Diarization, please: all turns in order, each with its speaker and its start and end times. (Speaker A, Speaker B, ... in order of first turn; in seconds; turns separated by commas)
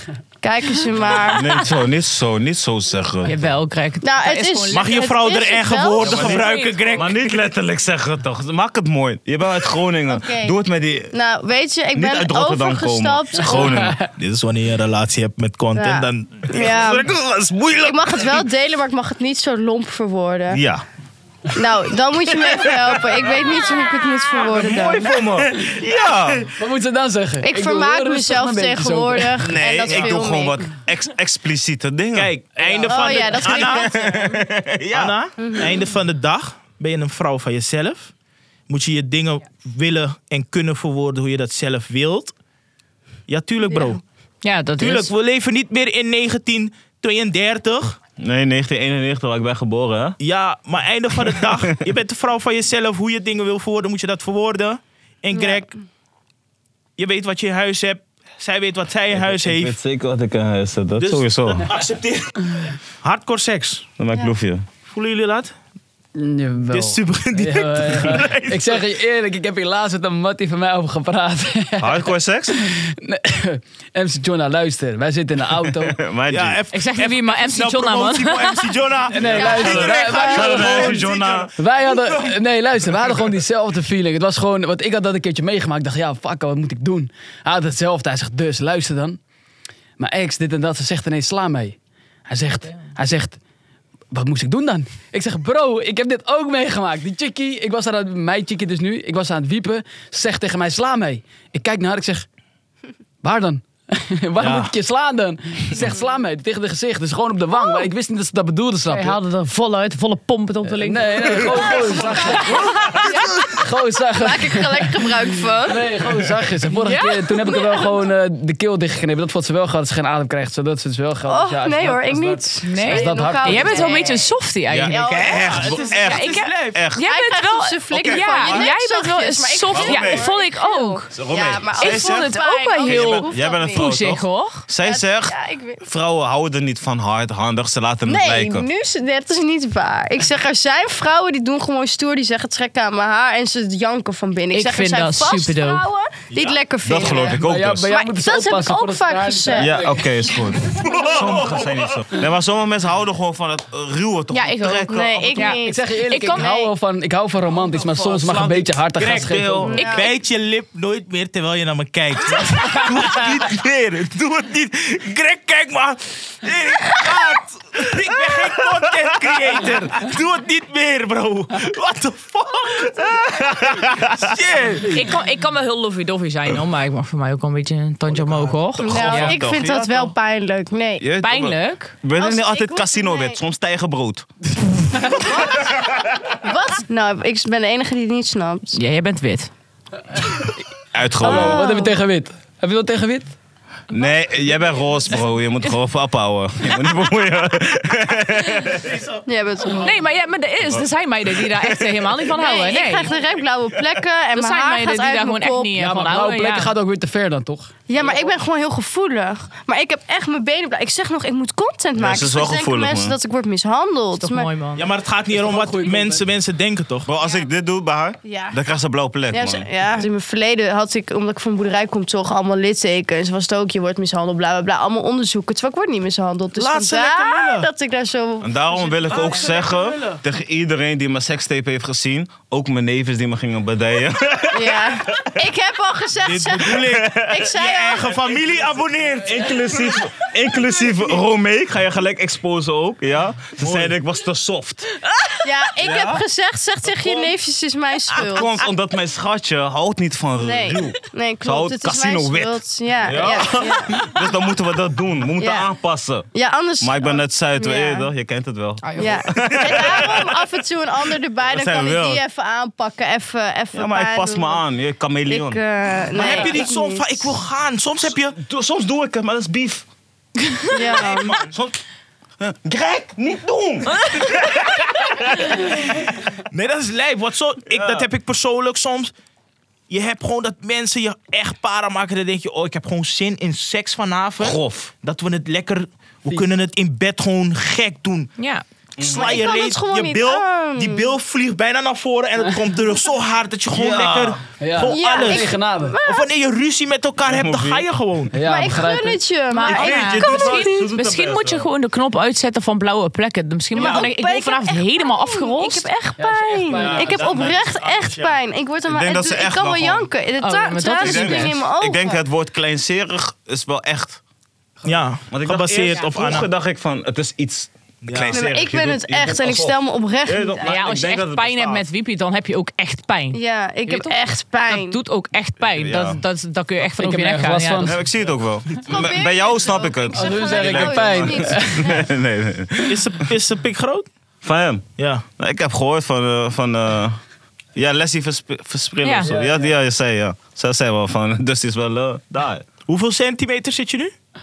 Speaker A: 0.4-1.6, Speaker B: 1.1-3.5, Speaker C: 1.3-1.6, Speaker C: 3.2-5.1, Speaker A: 4.0-6.3, Speaker D: 4.7-7.1, Speaker B: 6.0-11.1, Speaker C: 6.1-7.1, Speaker A: 10.1-10.5, Speaker A: 11.1-13.8, Speaker B: 11.9-14.0, Speaker E: 13.6-14.0, Speaker D: 14.1-16.9, Speaker A: 15.8-17.1, Speaker B: 16.5-18.4, Speaker A: 17.8-20.6, Speaker B: 20.5-20.8, Speaker A: 21.5-25.1, Speaker B: 22.4-23.3, Speaker B: 24.4-26.6, Speaker D: 24.7-25.4, Speaker E: 26.5-29.6, Speaker A: 27.4-30.7, Speaker B: 29.4-32.4, Speaker D: 29.8-30.1, Speaker D: 32.1-34.1, Speaker E: 32.6-33.1, Speaker A: 32.8-34.4, Speaker B: 33.2-35.2, Speaker D: 34.9-38.1, Speaker A: 35.4-35.7, Speaker D: 38.7-42.3, Speaker D: 43.3-44.0, Speaker A: 43.7-44.0, Speaker C: 44.4-45.1, Speaker D: 44.8-48.0, Speaker B: 48.2-50.2, Speaker D: 50.2-55.7, Speaker B: 51.3-51.8, Speaker A: 55.3-55.7, Speaker D: 57.0-59.8, Speaker B: 59.1-61.8, Speaker D: 61.0-63.9, Speaker B: 64.0-64.6, Speaker D: 64.8-65.5, Speaker E: 66.1-76.0, Speaker D: 66.7-68.8, Speaker B: 71.8-72.6, Speaker B: 75.8-76.6, Speaker D: 76.3-81.5, Speaker C: 76.7-78.7, Speaker E: 79.1-89.2, Speaker B: 79.2-81.5, Speaker A: 79.3-80.6, Speaker E: 90.0-93.4, Speaker E: 94.1-102.3, Speaker E: 103.2-109.2, Speaker D: 104.4-104.7, Speaker C: 108.9-112.4, Speaker E: 110.6-124.0, Speaker A: 111.8-113.3, Speaker B: 112.6-113.6, Speaker A: 114.2-115.8, Speaker C: 116.8-117.3, Speaker A: 117.5-117.9, Speaker A: 121.2-125.9, Speaker C: 122.6-131.1, Speaker B: 124.7-127.0, Speaker D: 125.4-126.8, Speaker A: 127.0-133.9, Speaker B: 127.9-128.7, Speaker B: 129.7-130.3, Speaker B: 131.1-138.7, Speaker C: 131.8-134.6, Speaker A: 134.8-135.8, Speaker A: 138.0-149.8, Speaker C: 144.5-145.8, Speaker D: 146.3-146.6, Speaker B: 146.8-147.9, Speaker E: 147.3-150.3, Speaker B: 149.6-155.5, Speaker D: 151.1-151.6, Speaker C: 154.3-156.5, Speaker A: 154.8-156.7, Speaker E: 155.6-159.7, Speaker B: 158.0-159.8, Speaker D: 158.9-175.0, Speaker A: 159.7-160.1, Speaker C: 159.7-160.1, Speaker B: 168.3-169.6, Speaker B: 173.0-174.3, Speaker C: 174.9-179.4, Speaker A: 178.8-181.1, Speaker B: 178.9-179.8, Speaker D: 179.1-180.0, Speaker B: 181.0-185.8, Speaker C: 181.2-181.9, Speaker A: 182.1-183.4, Speaker A: 185.2-185.8, Speaker A: 186.4-188.8, Speaker C: 188.7-189.5, Speaker B: 190.9-191.6, Speaker E: 191.2-193.3, Speaker A: 191.2-192.0, Speaker B: 193.9-198.9, Speaker D: 198.8-199.2, Speaker A: 199.2-200.0, Speaker C: 199.8-203.1, Speaker A: 202.3-205.7, Speaker C: 204.3-206.7, Speaker E: 205.7-207.7, Speaker A: 207.9-214.5, Speaker B: 212.0-213.2, Speaker C: 214.2-214.8, Speaker D: 214.8-217.1, Speaker E: 215.3-216.2, Speaker B: 217.1-219.7, Speaker A: 217.2-217.5, Speaker A: 218.2-218.6, Speaker A: 219.3-229.4, Speaker D: 226.6-227.7, Speaker B: 228.4-235.4, Speaker D: 228.8-230.2, Speaker A: 234.5-238.1, Speaker D: 236.2-239.6, Speaker B: 236.8-237.5, Speaker B: 239.2-246.2, Speaker D: 243.6-244.0, Speaker A: 245.4-248.7, Speaker B: 246.9-247.3, Speaker B: 248.1-260.4, Speaker A: 250.4-254.1, Speaker A: 255.4-255.7, Speaker A: 256.3-258.1, Speaker A: 258.9-264.6, Speaker B: 261.4-262.2, Speaker B: 263.7-265.6, Speaker A: 265.2-267.3, Speaker D: 266.1-268.4, Speaker B: 268.3-269.9, Speaker A: 270.7-271.4, Speaker D: 271.0-271.4, Speaker B: 271.3-271.8, Speaker B: 272.4-275.6, Speaker D: 276.5-279.1, Speaker B: 277.7-278.1, Speaker D: 279.9-288.3, Speaker B: 284.4-284.9, Speaker C: 288.4-288.6, Speaker B: 289.0-289.4, Speaker D: 289.0-295.5, Speaker A: 289.0-291.1, Speaker B: 293.7-294.4, Speaker E: 294.6-296.0, Speaker A: 294.8-296.3, Speaker D: 296.0-298.3, Speaker B: 297.2-297.9, Speaker E: 298.3-299.2, Speaker A: 298.4-300.9, Speaker C: 299.5-305.9, Speaker B: 299.6-301.7, Speaker A: 303.7-312.2, Speaker D: 303.8-304.1, Speaker E: 306.2-307.4, Speaker D: 306.7-308.4, Speaker B: 308.9-310.1, Speaker C: 310.4-311.6, Speaker B: 310.9-314.2, Speaker D: 314.8-316.5, Speaker B: 315.3-321.8, Speaker D: 318.0-318.4, Speaker A: 318.3-320.8, Speaker C: 320.6-327.9, Speaker A: 323.3-325.0, Speaker B: 325.6-326.2, Speaker E: 327.0-328.0, Speaker B: 327.8-332.9, Speaker A: 328.8-332.1, Speaker E: 330.1-332.0, Speaker D: 332.9-334.1, Speaker B: 334.4-337.2, Speaker D: 335.0-335.2, Speaker B: 337.7-342.6, Speaker C: 339.0-339.3, Speaker E: 339.2-339.7, Speaker D: 342.9-344.1